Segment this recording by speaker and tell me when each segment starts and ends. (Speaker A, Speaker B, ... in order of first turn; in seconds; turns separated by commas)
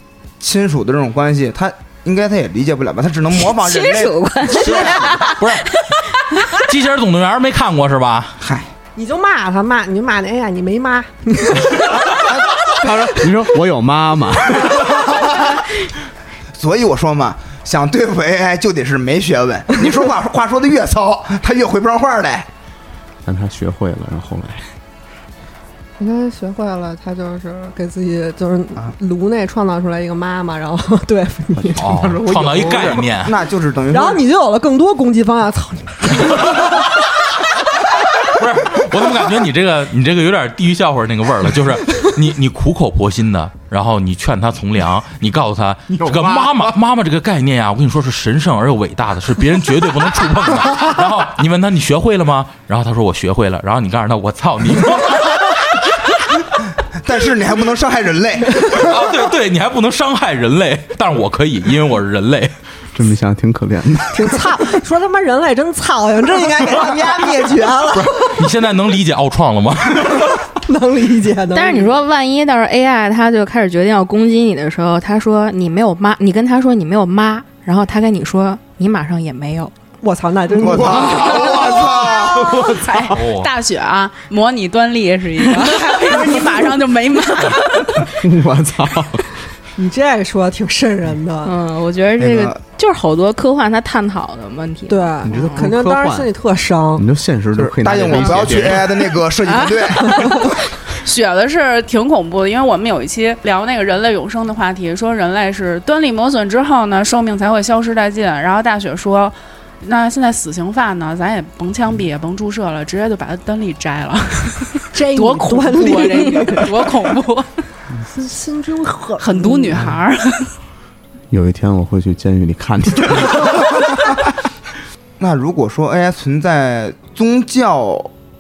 Speaker A: 0.4-5.0, Speaker B: 3.4-6.6, Speaker C: 4.5-5.8, Speaker C: 6.5-8.3, Speaker A: 8.4-8.7, Speaker D: 8.9-12.2, Speaker A: 12.1-12.5, Speaker E: 12.8-14.9, Speaker A: 14.6-15.5, Speaker A: 16.6-22.5, Speaker E: 23.2-24.8, Speaker D: 26.0-32.0, Speaker E: 31.6-33.0, Speaker C: 31.8-33.4, Speaker A: 32.6-34.2, Speaker D: 33.9-36.8, Speaker C: 38.2-56.5, Speaker E: 45.9-46.7, Speaker A: 57.0-59.0, Speaker C: 58.5-62.5, Speaker E: 62.9-64.5, Speaker D: 64.1-68.5, Speaker C: 67.9-70.4, Speaker D: 70.6-72.0, Speaker B: 71.5-79.7, Speaker D: 80.0-82.8, Speaker A: 80.6-82.4, Speaker F: 81.4-88.1, Speaker C: 82.5-83.5, Speaker D: 86.0-86.7, Speaker E: 88.0-89.4, Speaker D: 89.8-91.5, Speaker B: 91.4-95.7, Speaker A: 92.2-92.6, Speaker D: 94.9-97.0, Speaker E: 95.2-96.3, Speaker E: 96.9-99.1, Speaker A: 97.6-100.4, Speaker B: 99.5-100.4, Speaker F: 100.9-117.5, Speaker D: 114.9-116.9, Speaker D: 118.1-119.9, Speaker F: 119.2-120.5, Speaker E: 121.3-123.8, Speaker A: 125.2-128.1